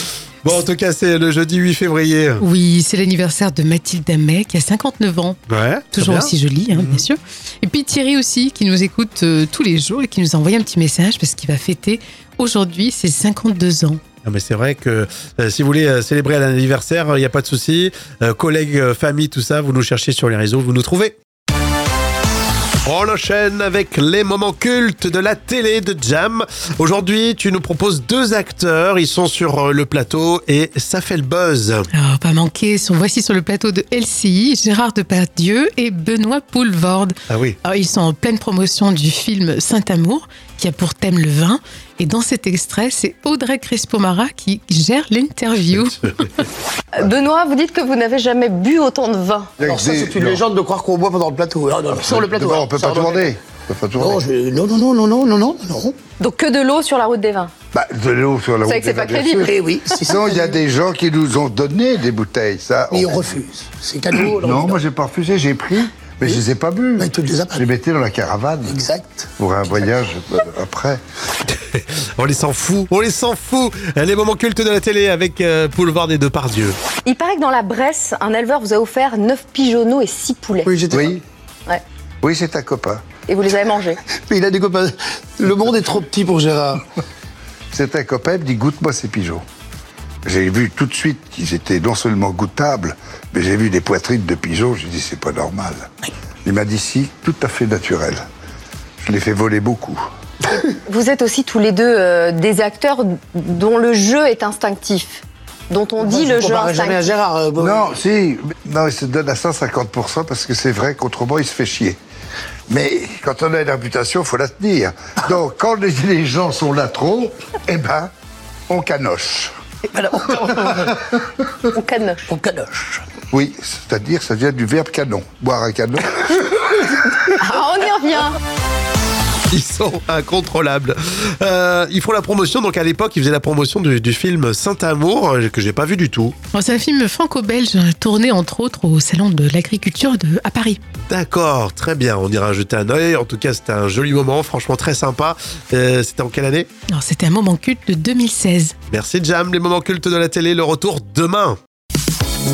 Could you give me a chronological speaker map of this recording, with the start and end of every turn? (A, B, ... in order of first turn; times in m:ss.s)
0:00.4-0:02.4 A
0:02.4-0:05.4 B
0:05.5-0:07.0 A
0:05.9-0:14.0 B
0:14.2-0:21.2 A
0:22.8-0:31.9 A
0:31.9-0:46.4 B
0:37.3-0:37.6 A
0:45.8-0:46.2 A
0:46.9-0:49.5 C
0:49.6-0:50.4 D
0:49.6-0:53.3 E
0:51.9-0:54.2 D
0:54.0-0:56.0 E
0:56.2-0:57.5 C
0:57.7-1:03.3 D
0:58.6-0:59.5 C
0:59.4-1:00.6 E
1:02.9-1:04.8 E
1:04.3-1:11.0 D
1:07.0-1:07.7 E
1:08.7-1:09.3 E
1:11.5-1:16.8 A
1:17.0-1:20.7 C
1:20.6-1:21.1 E
1:20.9-1:21.2 D
1:22.2-1:23.1 D
1:23.3-1:24.0 C
1:24.3-1:26.8 E
1:27.7-1:29.4 D
1:30.2-1:35.9 D
1:36.4-1:38.2 D
1:39.0-1:40.0 D
1:40.8-1:47.1 C
1:46.0-1:47.9 E
1:47.6-1:52.0 D
1:52.7-1:58.1 D
1:58.7-1:59.5 D
1:59.9-2:01.2 E
2:01.7-2:02.2 C
2:02.3-2:03.0 E
2:03.3-2:07.1 D
2:07.4-2:08.4 C
2:09.5-2:16.4 A
2:16.5-2:20.8 B
2:21.0-2:26.7 A
2:26.9-2:28.7 B
2:28.9-2:31.6 A